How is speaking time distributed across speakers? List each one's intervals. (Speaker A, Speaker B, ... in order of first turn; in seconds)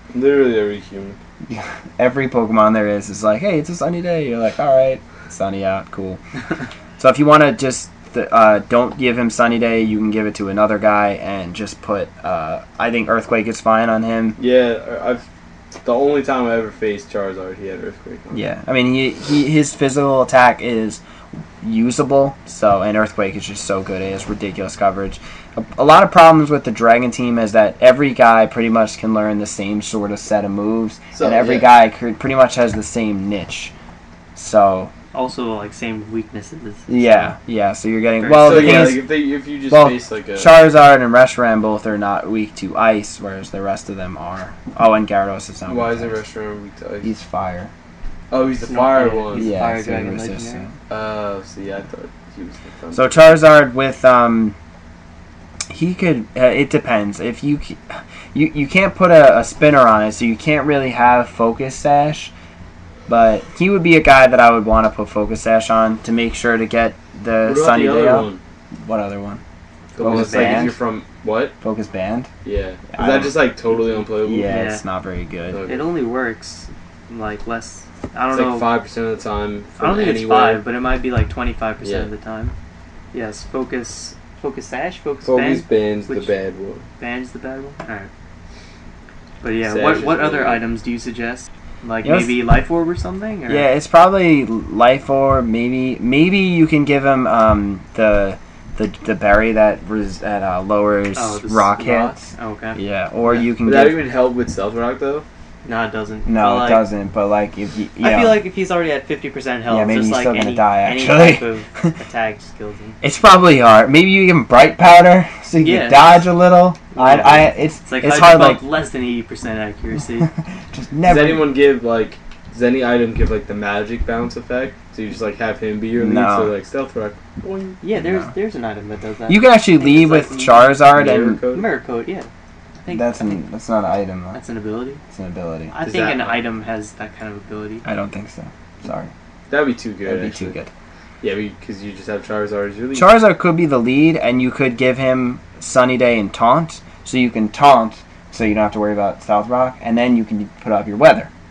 Speaker A: 0.1-1.2, 14.4-15.2, 15.8-18.4, 31.1-31.7, 38.4-40.5, 45.6-47.1, 48.3-49.5, 50.9-53.2, 67.4-68.4, 69.9-71.5, 72.4-74.5, 75.5-75.9, 78.3-80.6, 81.8-82.1, 85.2-86.8, 89.7-90.7, 103.4-105.2, 121.0-127.8, 130.9-131.7, 135.8-136.4, 139.5-140.5, 141.2-143.1
Speaker B: 1.5-6.2, 7.0-14.4, 18.3-21.0, 21.6-33.7, 34.4-34.9, 36.9-39.1, 39.7-46.2, 47.0-47.7, 49.3-50.7, 52.9-54.5, 55.7-62.3, 63.1-68.3, 68.8-69.4, 70.0-70.8, 71.6-72.3, 72.9-73.3, 74.0-75.6, 92.0-92.4, 93.5-104.0, 106.2-108.4, 109.7-111.9, 113.0-118.6, 120.2-121.5, 126.0-126.5, 127.9-128.3, 129.3-131.4, 132.9-134.4, 135.1-135.7, 137.8-139.1, 140.0-140.7, 142.9-151.3
Speaker C: 35.1-36.9, 38.2-39.0, 48.6-50.6, 70.0-70.7, 74.5-74.8, 75.7-78.7, 79.8-82.5, 83.1-86.3, 87.0-88.1, 89.4-93.7, 101.1-102.8, 105.6-106.9, 108.0-113.0, 115.6-116.3, 116.9-120.3, 127.8-130.8, 131.5-132.3, 132.8-133.4, 134.3-135.0, 135.7-137.8